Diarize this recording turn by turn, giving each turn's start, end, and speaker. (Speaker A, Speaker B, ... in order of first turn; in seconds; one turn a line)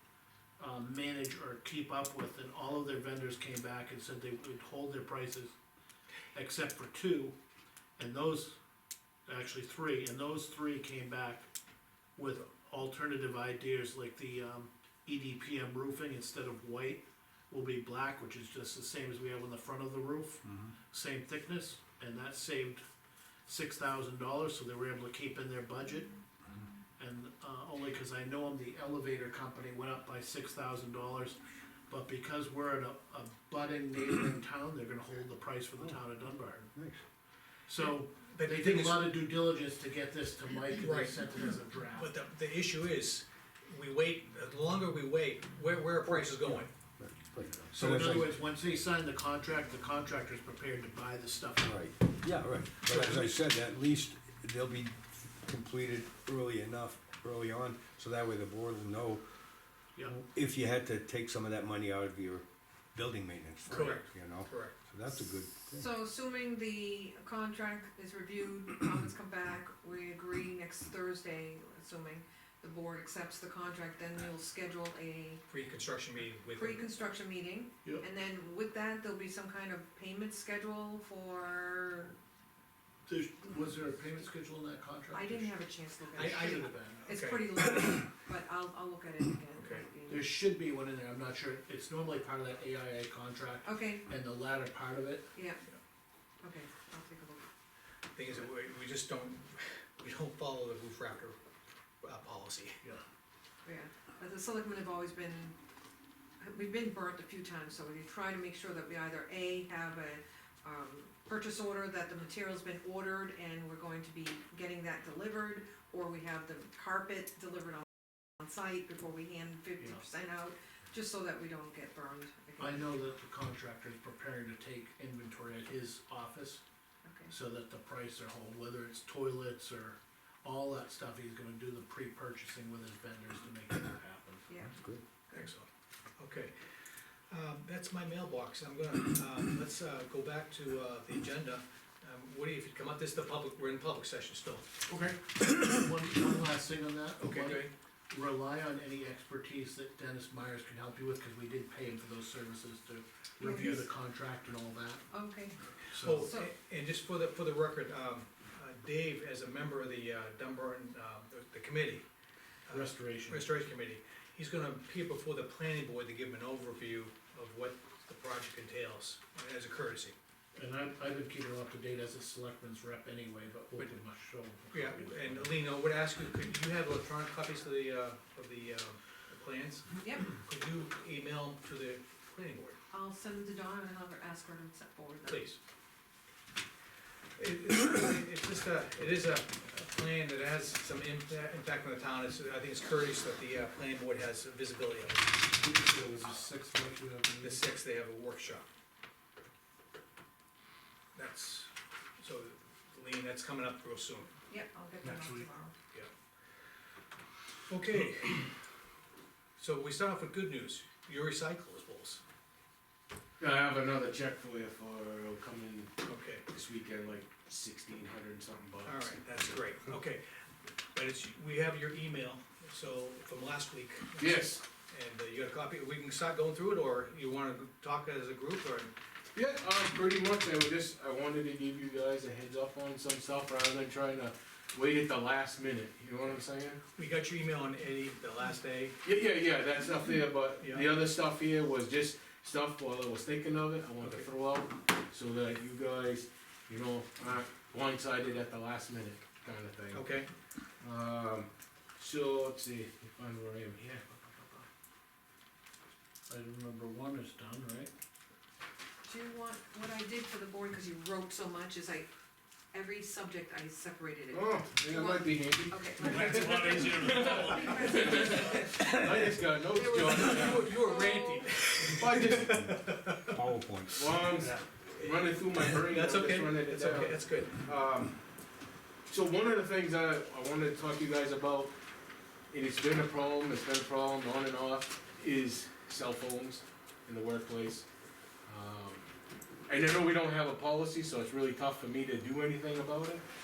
Speaker A: 0.6-5.5
Speaker A: 6.3-7.3
Speaker A: 8.0-8.6
Speaker A: 9.3-11.5
Speaker A: 12.2-22.8
Speaker A: 23.4-26.1
Speaker A: 27.0-36.7
Speaker B: 35.8-37.0
Speaker A: 37.7-42.1
Speaker C: 37.8-39.2
Speaker C: 40.7-41.2
Speaker C: 42.0-46.7
Speaker B: 46.0-48.3
Speaker A: 47.7-51.8
Speaker B: 51.6-59.2
Speaker A: 52.9-53.4
Speaker A: 60.0-60.2
Speaker B: 60.1-65.9
Speaker C: 63.7-64.8
Speaker D: 65.2-75.4
Speaker C: 75.5-76.9
Speaker D: 76.6-82.2
Speaker A: 83.1-85.5
Speaker D: 85.1-90.3
Speaker A: 86.1-87.1
Speaker C: 86.2-87.7
Speaker C: 89.5-89.9
Speaker A: 90.1-95.3
Speaker D: 93.7-94.0
Speaker D: 95.3-95.6
Speaker D: 96.4-97.4
Speaker C: 98.2-101.4
Speaker C: 102.0-102.8
Speaker D: 103.7-105.6
Speaker D: 106.4-117.8
Speaker D: 118.4-122.9
Speaker A: 122.6-126.6
Speaker D: 127.0-127.3
Speaker A: 127.3-134.5
Speaker D: 134.5-135.5
Speaker B: 134.7-135.0
Speaker C: 135.3-135.7
Speaker C: 136.2-136.6
Speaker C: 137.3-144.7
Speaker A: 145.0-155.1
Speaker C: 147.2-147.7
Speaker D: 153.4-153.8
Speaker C: 153.4-153.8
Speaker D: 155.1-155.6
Speaker A: 155.9-156.3
Speaker C: 155.9-162.1
Speaker D: 156.2-156.5
Speaker C: 162.7-170.2
Speaker A: 162.7-163.5
Speaker A: 170.6-175.5
Speaker C: 174.7-182.8
Speaker D: 180.0-180.4
Speaker D: 182.9-185.5
Speaker C: 185.2-185.6
Speaker C: 187.4-195.2
Speaker A: 195.5-197.6
Speaker C: 197.4-198.7
Speaker C: 201.2-204.3
Speaker D: 204.5-205.7
Speaker A: 205.0-205.5
Speaker C: 207.7-208.5
Speaker C: 209.6-212.2
Speaker E: 213.4-219.2
Speaker C: 216.0-216.4
Speaker C: 218.8-220.2
Speaker C: 220.9-228.9
Speaker E: 224.2-224.6
Speaker E: 229.3-236.8
Speaker C: 237.0-239.0
Speaker E: 239.0-250.1
Speaker C: 240.6-240.9
Speaker C: 244.0-244.3
Speaker C: 249.9-250.3
Speaker E: 250.8-254.7
Speaker A: 256.3-257.9
Speaker D: 259.0-262.1
Speaker D: 262.7-271.7
Speaker E: 264.3-270.7
Speaker C: 266.0-267.9
Speaker C: 269.9-273.4
Speaker E: 271.8-272.8
Speaker B: 273.3-274.1
Speaker E: 273.9-278.2
Speaker C: 275.7-277.6
Speaker E: 279.1-281.8
Speaker E: 282.5-287.9
Speaker E: 288.4-289.1
Speaker E: 289.7-293.2